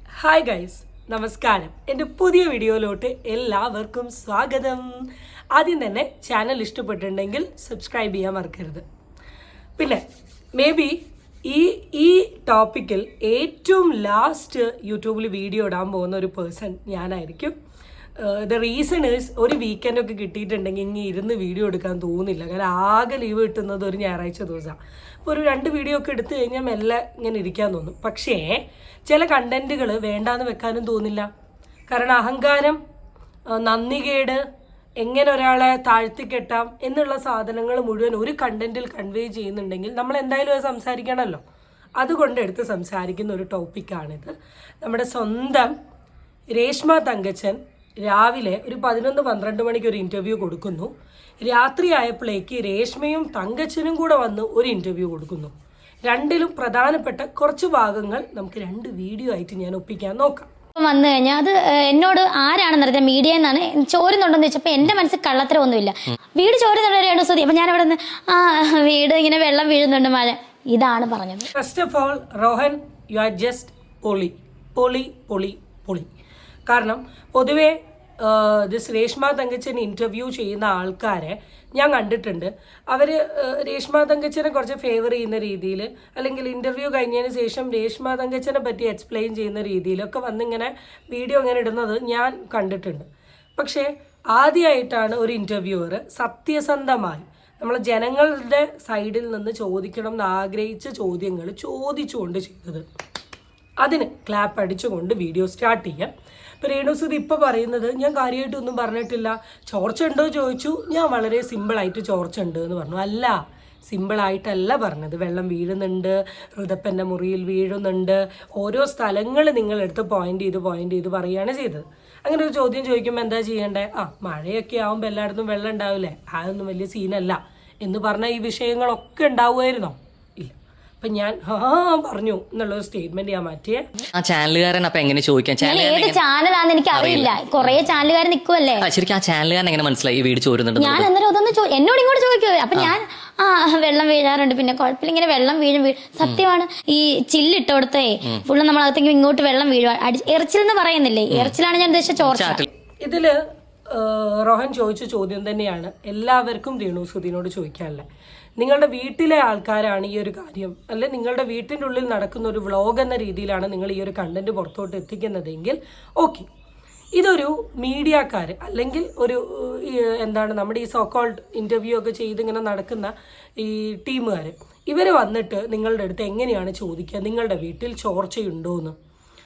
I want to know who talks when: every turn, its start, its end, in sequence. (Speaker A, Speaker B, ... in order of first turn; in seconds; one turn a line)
Speaker A: 0.2-8.8
Speaker A: 9.8-10.0
Speaker A: 10.6-17.5
Speaker A: 18.2-31.3
Speaker A: 31.9-32.8
Speaker A: 33.5-34.4
Speaker A: 35.0-41.4
Speaker A: 42.0-45.7
Speaker A: 46.5-50.9
Speaker A: 51.4-55.5
Speaker A: 56.0-60.5
Speaker B: 60.8-71.5
Speaker A: 71.5-76.1
Speaker A: 76.7-102.8
Speaker A: 103.8-133.9
Speaker C: 134.1-136.2
Speaker B: 135.6-138.9
Speaker C: 136.9-137.8
Speaker C: 138.8-141.1
Speaker B: 140.8-152.6
Speaker C: 152.2-152.7
Speaker A: 153.0-153.4
Speaker A: 153.9-158.0
Speaker A: 158.6-166.5
Speaker A: 167.2-178.9